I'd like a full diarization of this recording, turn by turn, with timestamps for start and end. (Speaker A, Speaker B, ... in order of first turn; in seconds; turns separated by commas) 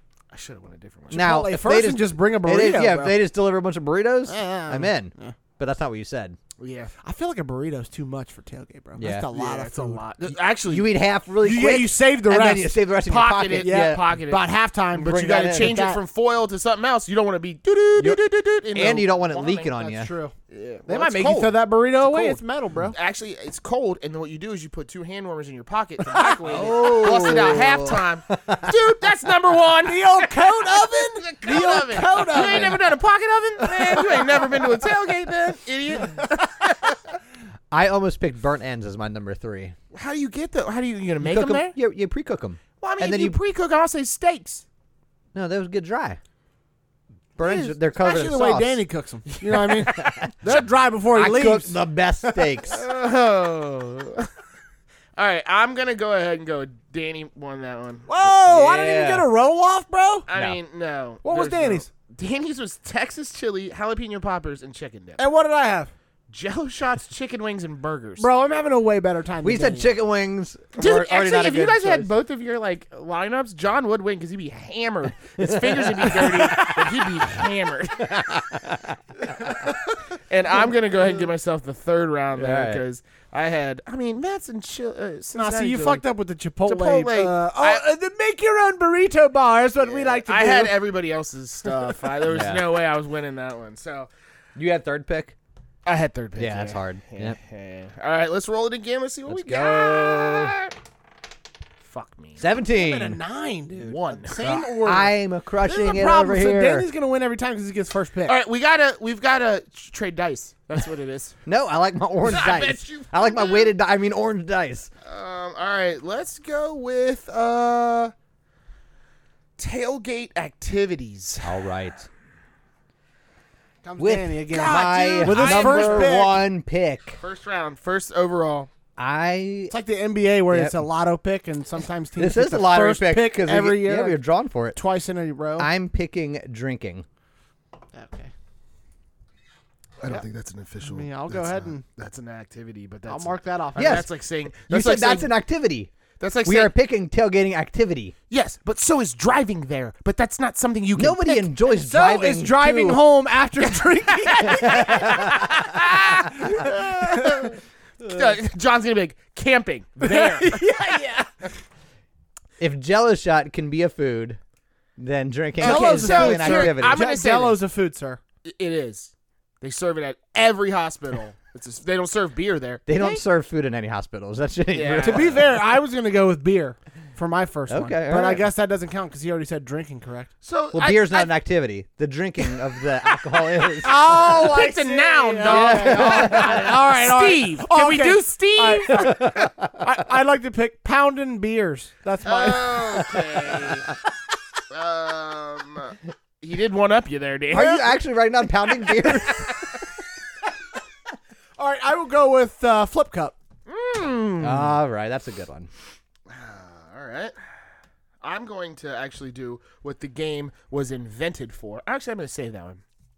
Speaker A: 0.3-1.4, Speaker B: 1.1-6.4, Speaker C: 1.1-3.2, Speaker C: 4.3-5.4, Speaker A: 6.6-6.9, Speaker C: 7.0-10.1, Speaker B: 9.0-9.3, Speaker A: 9.3-10.9, Speaker B: 10.3-14.0, Speaker C: 11.4-12.8, Speaker A: 13.1-19.7, Speaker C: 13.6-16.0, Speaker B: 15.0-15.8, Speaker B: 18.7-20.1, Speaker C: 19.8-20.3, Speaker A: 20.5-37.0, Speaker C: 20.9-23.0, Speaker C: 26.1-27.0, Speaker B: 26.4-28.7, Speaker C: 29.8-32.8, Speaker C: 33.6-34.6, Speaker B: 37.7-39.8, Speaker A: 39.9-41.8, Speaker B: 41.2-43.4, Speaker A: 42.8-44.6, Speaker B: 45.3-46.2, Speaker B: 47.4-48.8, Speaker C: 47.4-51.8, Speaker A: 49.4-50.6, Speaker B: 49.9-50.3, Speaker B: 51.1-52.8, Speaker A: 52.7-54.3, Speaker A: 55.2-58.1, Speaker C: 58.1-60.3, Speaker B: 58.4-59.3, Speaker A: 60.3-65.2, Speaker B: 60.3-60.6, Speaker C: 61.2-61.9, Speaker C: 65.2-65.9, Speaker A: 66.3-68.3, Speaker C: 68.2-69.9, Speaker B: 69.4-72.1, Speaker A: 70.8-78.5, Speaker B: 75.4-77.1, Speaker B: 78.0-79.5, Speaker A: 80.3-86.0, Speaker B: 82.3-82.8, Speaker C: 85.3-90.8, Speaker A: 86.7-87.8, Speaker A: 89.8-94.1, Speaker B: 92.3-92.7, Speaker B: 94.6-95.3, Speaker A: 95.9-100.7, Speaker B: 96.4-97.4, Speaker B: 99.3-100.5, Speaker A: 101.8-102.4, Speaker B: 102.4-103.2, Speaker C: 102.6-108.3, Speaker A: 103.8-104.6, Speaker B: 104.4-106.9, Speaker A: 108.3-111.4, Speaker B: 111.5-114.9, Speaker A: 112.2-113.7, Speaker A: 115.0-118.1, Speaker A: 119.6-121.5, Speaker B: 121.4-122.1, Speaker C: 123.8-126.4, Speaker B: 124.0-127.2, Speaker A: 124.5-126.2, Speaker A: 127.2-128.7, Speaker B: 129.0-129.7, Speaker C: 129.7-134.2, Speaker B: 130.5-130.8, Speaker B: 132.2-134.8, Speaker C: 134.8-135.7, Speaker B: 135.6-137.1, Speaker C: 137.9-138.3, Speaker A: 140.0-145.3, Speaker C: 140.8-141.8, Speaker C: 143.1-144.1, Speaker B: 143.8-145.9, Speaker A: 146.2-146.7, Speaker B: 146.4-148.2, Speaker A: 148.3-151.5, Speaker B: 150.9-153.0, Speaker C: 151.7-155.5, Speaker A: 154.3-160.8, Speaker B: 154.5-155.5, Speaker C: 156.3-157.5, Speaker C: 160.0-161.3, Speaker B: 162.6-164.4, Speaker B: 165.0-167.1, Speaker A: 165.6-167.6, Speaker C: 165.6-168.2, Speaker A: 168.4-173.1, Speaker B: 172.9-175.4, Speaker A: 174.7-175.4, Speaker C: 175.0-180.3, Speaker B: 177.7-178.4, Speaker A: 180.4-181.3, Speaker B: 180.7-184.0, Speaker C: 183.8-192.8, Speaker A: 183.9-189.2, Speaker B: 185.5-186.7, Speaker B: 188.9-189.9, Speaker A: 192.2-193.9, Speaker B: 193.1-193.8, Speaker A: 194.7-197.9, Speaker B: 197.5-199.7, Speaker C: 201.6-203.4, Speaker A: 203.7-204.8, Speaker B: 204.4-205.7, Speaker A: 206.3-207.3, Speaker A: 208.2-212.8